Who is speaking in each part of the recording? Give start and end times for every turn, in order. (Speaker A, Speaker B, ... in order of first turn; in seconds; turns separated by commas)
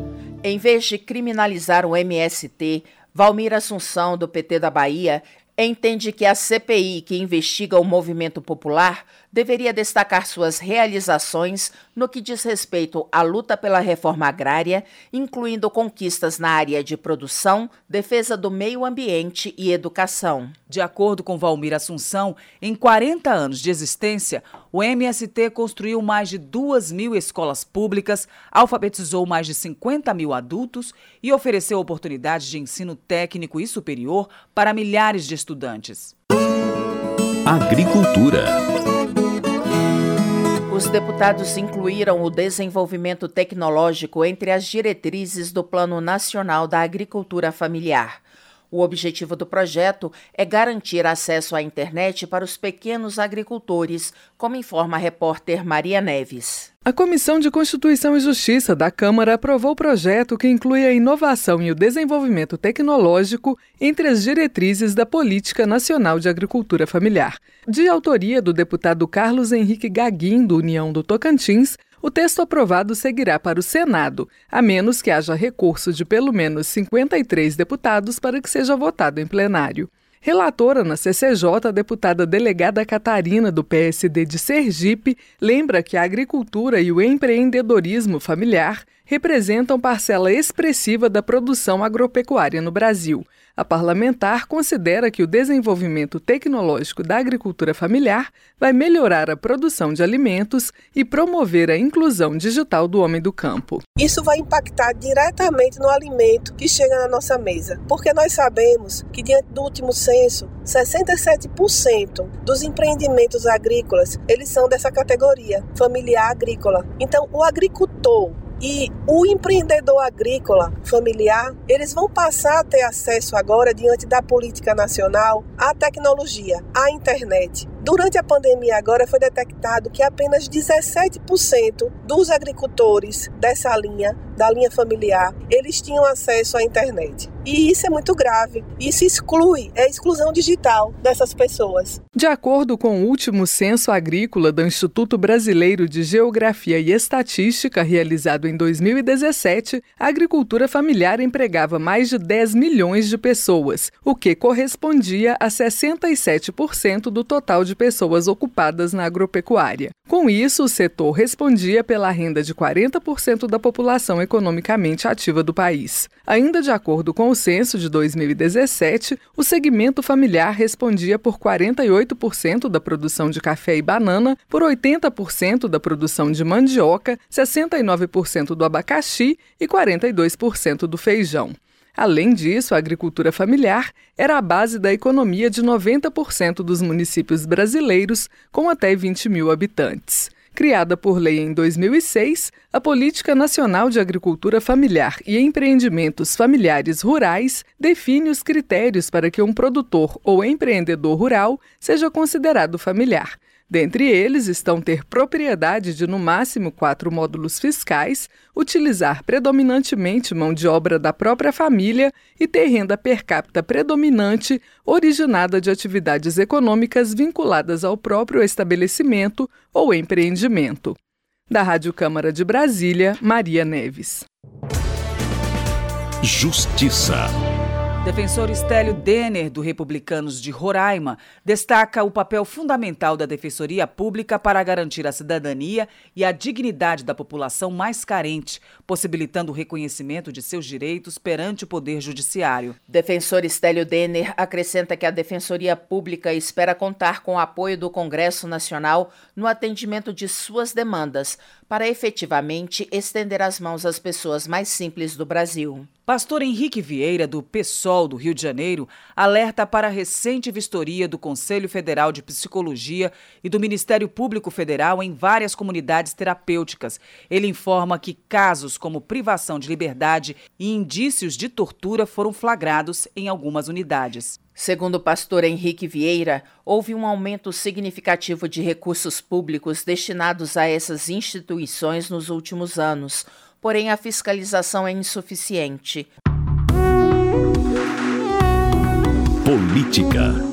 Speaker A: 0.4-20.5, Speaker B: 20.7-36.1, Speaker C: 37.5-38.6, Speaker A: 40.7-56.7, Speaker D: 56.8-103.8, Speaker E: 104.0-142.0, Speaker D: 142.1-221.0, Speaker D: 221.5-224.2, Speaker C: 226.2-227.3, Speaker B: 228.0-242.7, Speaker A: 242.9-255.9, Speaker B: 256.1-274.4, Speaker A: 274.6-286.1, Speaker C: 289.4-290.4